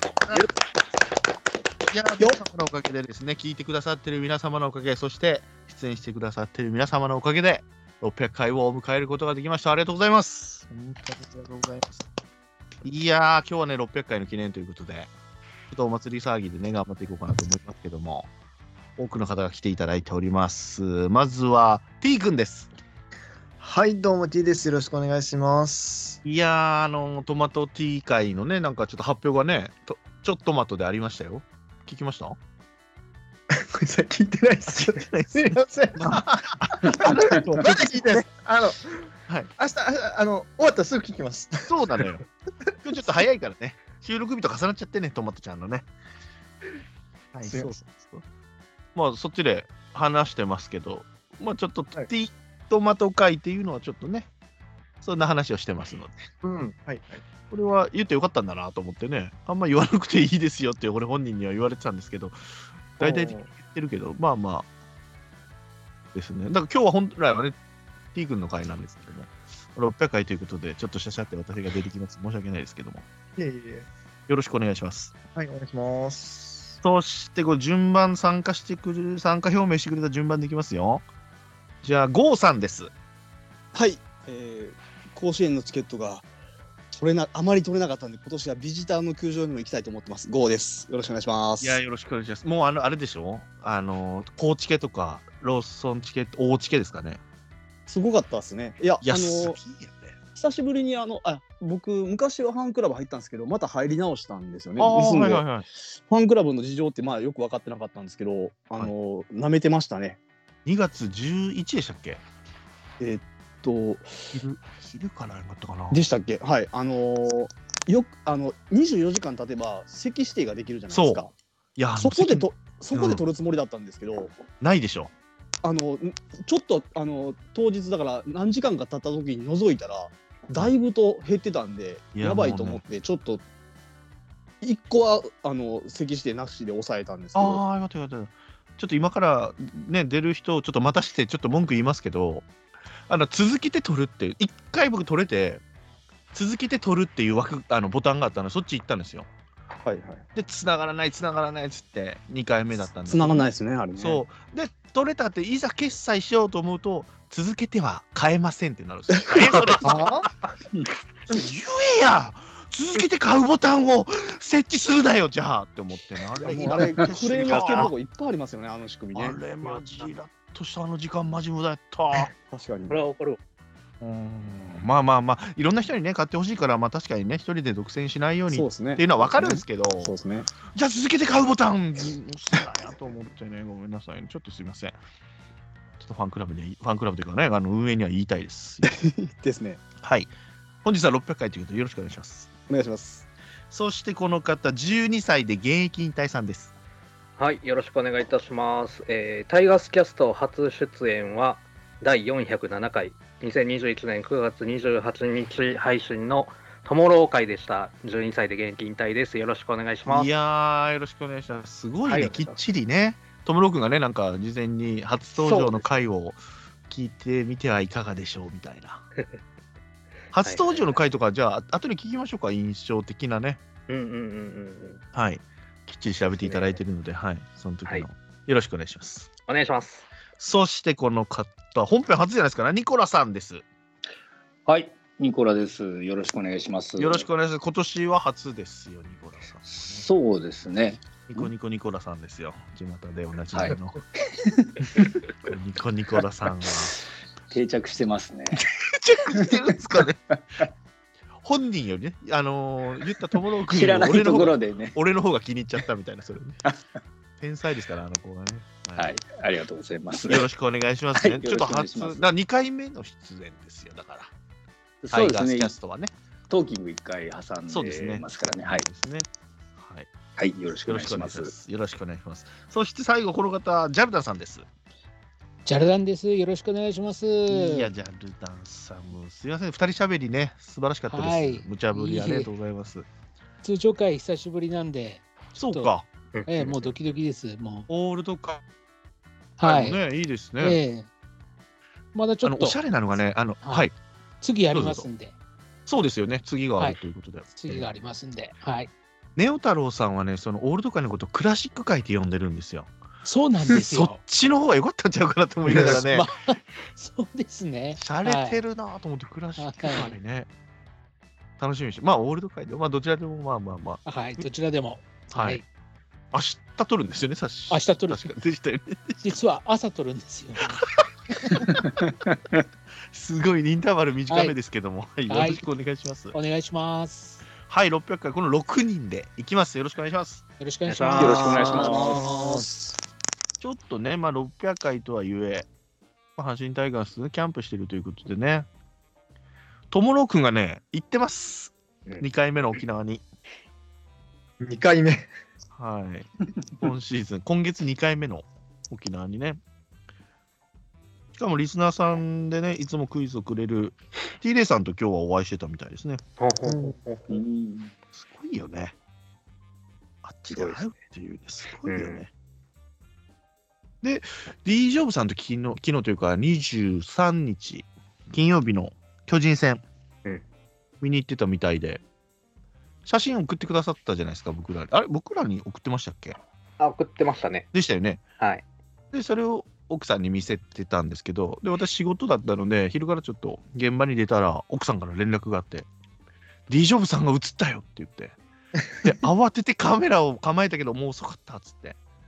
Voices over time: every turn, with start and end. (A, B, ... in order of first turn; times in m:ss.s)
0:01.9-0:10.6 A
0:10.7-0:12.0 B
0:12.8-0:15.1 A
0:15.7-0:18.3 A
0:19.0-0:22.7 A
0:23.6-0:26.2 B
0:26.2-0:32.4 A
0:33.5-0:39.0 B
0:34.7-0:38.3 A
0:39.6-0:42.2 B
0:41.6-0:42.2 A
0:42.8-0:45.9 A
0:47.3-0:48.2 A
0:48.9-0:54.3 A
0:55.0-0:56.2 A
0:56.4-0:57.2 B
0:57.5-1:02.4 A
1:03.0-1:04.7 A
1:03.0-1:03.5 B
1:06.1-1:07.6 A
1:08.1-1:13.0 A
1:13.4-1:13.9 B
1:14.3-1:15.1 A
1:15.3-1:16.8 B
1:16.8-1:21.0 A
1:21.8-1:22.9 A
1:23.7-1:26.3 C
1:26.9-1:31.8 C
1:31.6-1:37.2 A
1:37.9-1:39.6 C
1:39.0-1:40.2 A
1:40.4-1:50.2 C
1:44.8-1:45.6 A
1:50.6-1:52.2 A
1:53.0-1:54.1 C
1:54.3-1:56.0 A
1:55.9-2:01.3 C
2:00.9-2:01.2 A
2:01.8-2:03.2 A
2:02.0-2:04.3 C
2:04.6-2:05.1 A
2:05.6-2:13.4 C
2:12.1-2:12.8 A
2:14.6-2:17.6 C
2:17.3-2:22.5 A
2:23.1-2:25.6 A
2:26.3-2:29.3 A
2:29.8-2:30.2 C
2:30.3-2:33.4 A
2:33.0-2:34.2 C
2:34.0-2:40.1 A
2:39.8-2:40.3 B
2:41.3-2:47.9 A
2:46.4-2:49.4 C
2:47.4-2:47.9 D
2:49.1-2:52.3 A
2:52.5-2:53.0 C
2:52.9-2:53.4 D
2:54.0-3:00.2 A
2:58.5-3:00.5 C
3:00.7-3:04.9 A
3:06.0-3:08.9 A
3:08.8-3:09.8 C
3:10.0-3:10.3 A
3:10.8-3:12.5 A
3:12.7-3:13.3 C
3:13.7-3:16.7 A
3:17.4-3:30.3 D
3:30.0-3:39.0 A
3:32.0-3:32.6 D
3:40.3-3:43.6 A
3:40.4-3:41.0 D
3:43.9-3:45.0 D
3:45.1-3:49.3 A
3:46.4-3:46.8 D
3:49.5-3:50.1 D
3:50.4-3:53.6 A
3:54.6-3:57.3 E
3:57.0-4:00.0 A
3:59.7-4:01.5 E
4:01.3-4:04.0 A
4:03.5-4:03.8 E
4:04.4-4:05.1 E
4:05.4-4:07.0 A
4:07.5-4:08.6 E
4:08.5-4:10.2 A
4:11.4-4:16.6 A
4:13.6-4:15.0 E
4:17.4-4:19.1 A
4:19.0-4:20.5 E
4:20.2-4:24.3 A
4:21.1-4:22.3 E
4:25.0-4:25.7 E
4:25.1-4:26.1 A
4:26.5-4:28.9 E
4:27.7-4:30.1 A
4:30.4-4:31.5 E
4:30.9-4:34.7 A
4:35.6-4:37.9 F
4:37.5-4:43.0 A
4:41.1-4:42.5 F
4:43.6-4:45.9 F
4:45.5-4:46.1 A
4:46.3-4:46.8 D
4:46.5-4:47.9 F
4:47.9-4:48.6 A
4:49.6-4:50.0 F
4:49.6-4:50.8 A
4:50.6-4:51.1 F
4:52.1-4:52.8 F
4:52.4-4:53.9 A
4:53.6-4:53.9 F
4:54.4-4:55.3 F
4:54.7-4:55.1 A
4:55.9-4:57.9 A
4:57.5-4:58.9 F
4:59.4-5:02.9 A
5:03.2-5:04.2 F
5:03.6-5:06.3 A
5:05.7-5:08.6 F
5:08.0-5:10.5 A
5:09.6-5:10.2 F
5:11.6-5:14.0 A
5:14.0-5:15.6 F
5:15.3-5:15.6 A
5:16.3-5:19.2 A
5:17.7-5:18.3 F
5:19.2-5:20.8 F
5:20.6-5:21.8 A
5:23.1-5:26.3 A
5:24.3-5:24.5 F
5:25.3-5:25.6 F
5:26.3-5:27.4 F
5:27.7-5:30.4 A
5:30.6-5:31.9 F
5:31.0-5:32.4 E
5:31.2-5:32.9 C
5:31.2-5:32.3 A
5:33.6-5:35.7 A
5:36.4-5:38.7 A
5:39.9-5:43.2 A
5:44.6-5:45.3 B
5:45.7-5:46.3 A
5:46.8-5:49.6 A
5:51.3-5:56.2 A
5:56.4-5:57.4 D
5:56.6-5:56.9 B
5:57.3-5:57.9 E
5:58.1-5:58.9 A
6:00.2-6:02.3 A
6:00.5-6:00.8 D
6:01.8-6:02.2 D
6:04.0-6:09.8 A
6:11.0-6:12.0 A
6:13.0-6:16.4 A
6:16.8-6:17.7 D
6:17.7-6:18.2 A
6:19.1-6:25.9 A
6:26.7-6:28.4 A
6:29.0-6:32.0 A